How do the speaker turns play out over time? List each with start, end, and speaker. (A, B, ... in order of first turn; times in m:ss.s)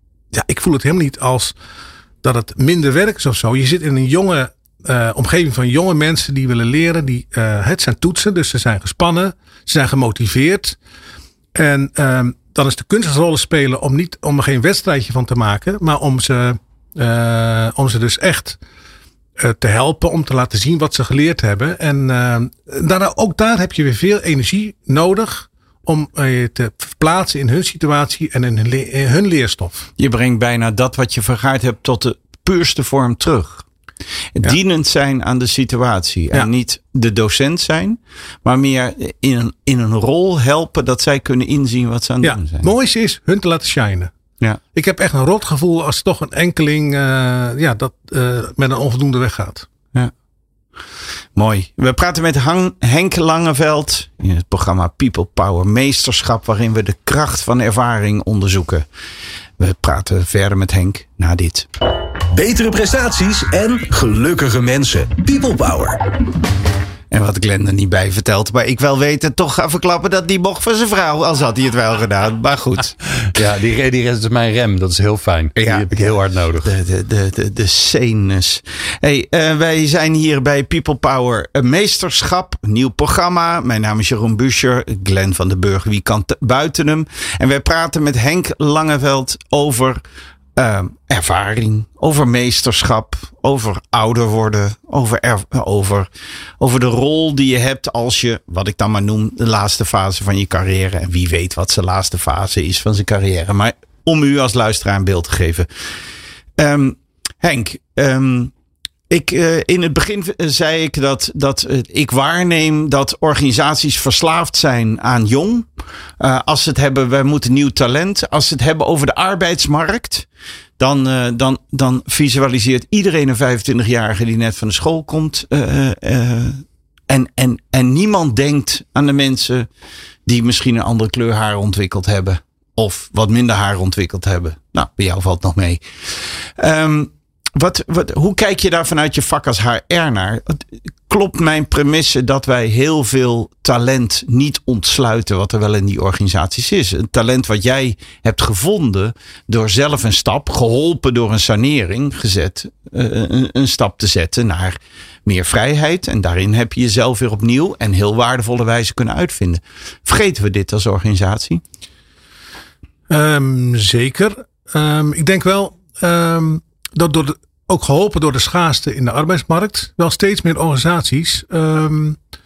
0:00.3-0:01.6 A
0:02.2-0:10.8 A
0:11.6-0:18.6 A
0:19.4-0:29.9 A
0:30.0-0:33.7 B
0:34.4-0:42.7 B
0:42.2-0:44.1 A
0:44.7-0:49.7 A
0:51.4-0:58.9 B
0:59.6-1:01.7 B
1:02.3-1:06.0 C
1:07.1-1:13.3 B
1:13.3-1:16.7 D
1:15.6-1:30.0 B
1:30.6-1:36.1 B
1:36.6-1:45.7 B
1:46.6-1:48.5 B
1:49.1-1:55.7 B
1:56.2-2:00.3 B
2:00.8-2:09.7 B
2:10.3-2:41.6 B
2:43.1-2:52.2 A